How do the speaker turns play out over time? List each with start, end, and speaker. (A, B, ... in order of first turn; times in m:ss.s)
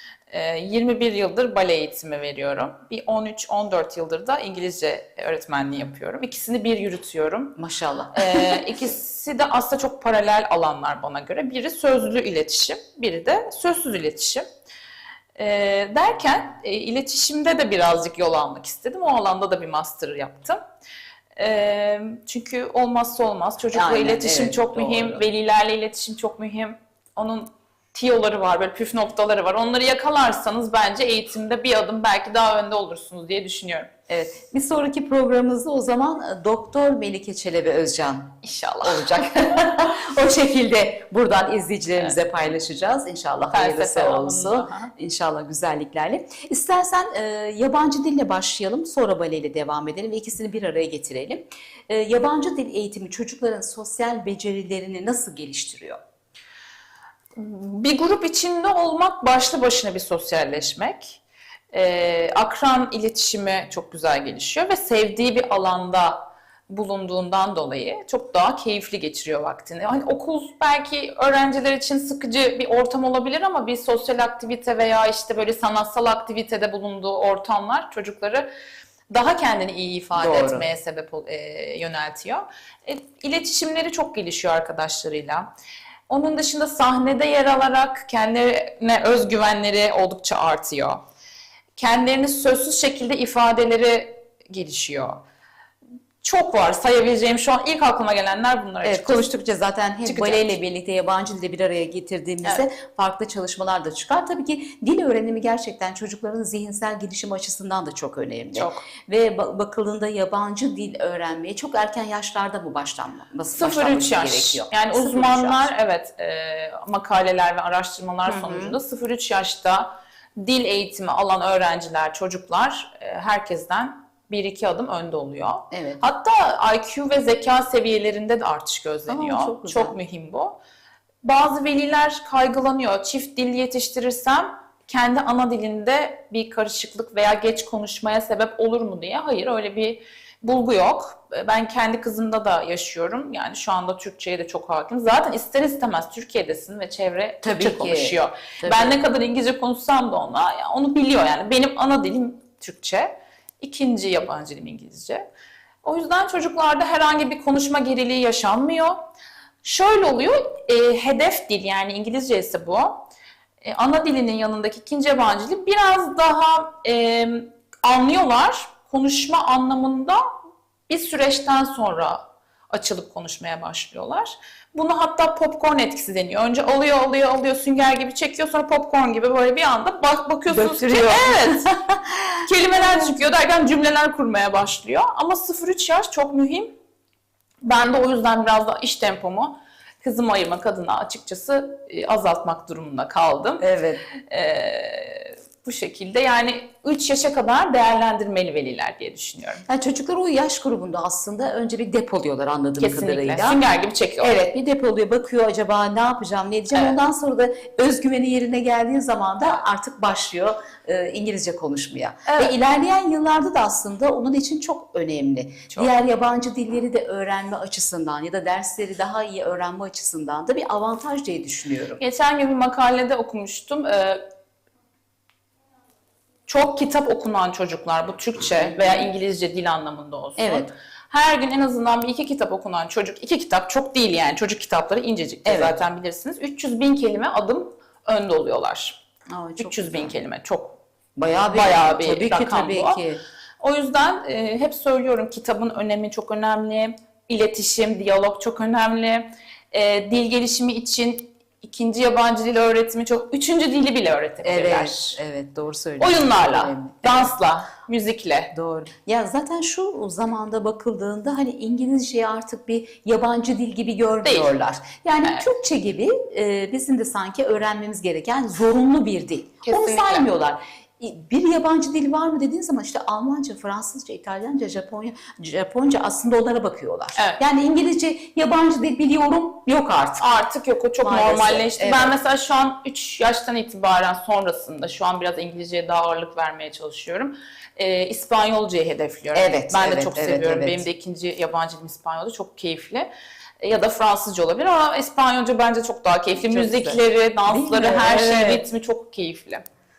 0:00.3-0:07.6 A
0:07.6-0:08.6 B
0:08.1-0:14.4 A
0:15.4-0:20.6 A
0:21.4-0:33.9 A
0:23.7-0:25.2 B
0:34.1-0:56.0 B
0:38.4-0:39.9 A
0:43.5-0:44.9 A
0:57.4-1:01.2 A
1:01.7-1:18.5 A
1:19.1-1:25.5 A
1:20.1-1:20.7 B
1:26.1-1:31.0 A
1:31.8-1:35.2 A
1:36.2-1:39.3 A
1:38.8-1:55.7 B
1:40.0-1:40.5 A
1:48.5-1:48.8 A
1:53.5-2:10.6 A
1:58.2-1:58.8 B
2:05.7-2:06.1 B
2:09.1-2:10.0 B
2:11.2-2:35.2 A
2:27.4-2:29.0 B
2:35.8-2:39.0 A
2:39.6-2:43.1 A
2:43.6-2:50.2 A
2:50.9-3:01.7 A
3:00.5-3:03.1 B
3:02.4-3:06.7 A
3:07.6-3:19.6 A
3:13.6-3:14.0 B
3:19.7-3:23.6 B
3:22.8-3:24.4 A
3:24.2-3:42.0 B
3:32.2-3:32.5 A
3:42.0-3:44.2 A
3:46.5-3:59.0 A
3:48.7-3:49.0 B
3:50.4-3:50.7 B
3:55.4-3:55.8 B
3:59.3-4:00.2 B
3:59.6-4:00.8 A
4:01.2-4:03.2 B
4:01.5-4:03.0 A
4:03.6-4:15.2 A
4:14.4-4:17.3 B
4:16.0-4:18.5 A
4:18.5-4:40.4 B
4:24.2-4:24.5 A
4:29.6-4:30.3 A
4:37.2-4:37.4 A
4:40.2-4:53.1 A
4:41.0-4:42.2 B
4:49.4-4:50.8 B
4:53.6-4:59.6 A
4:56.5-4:58.6 B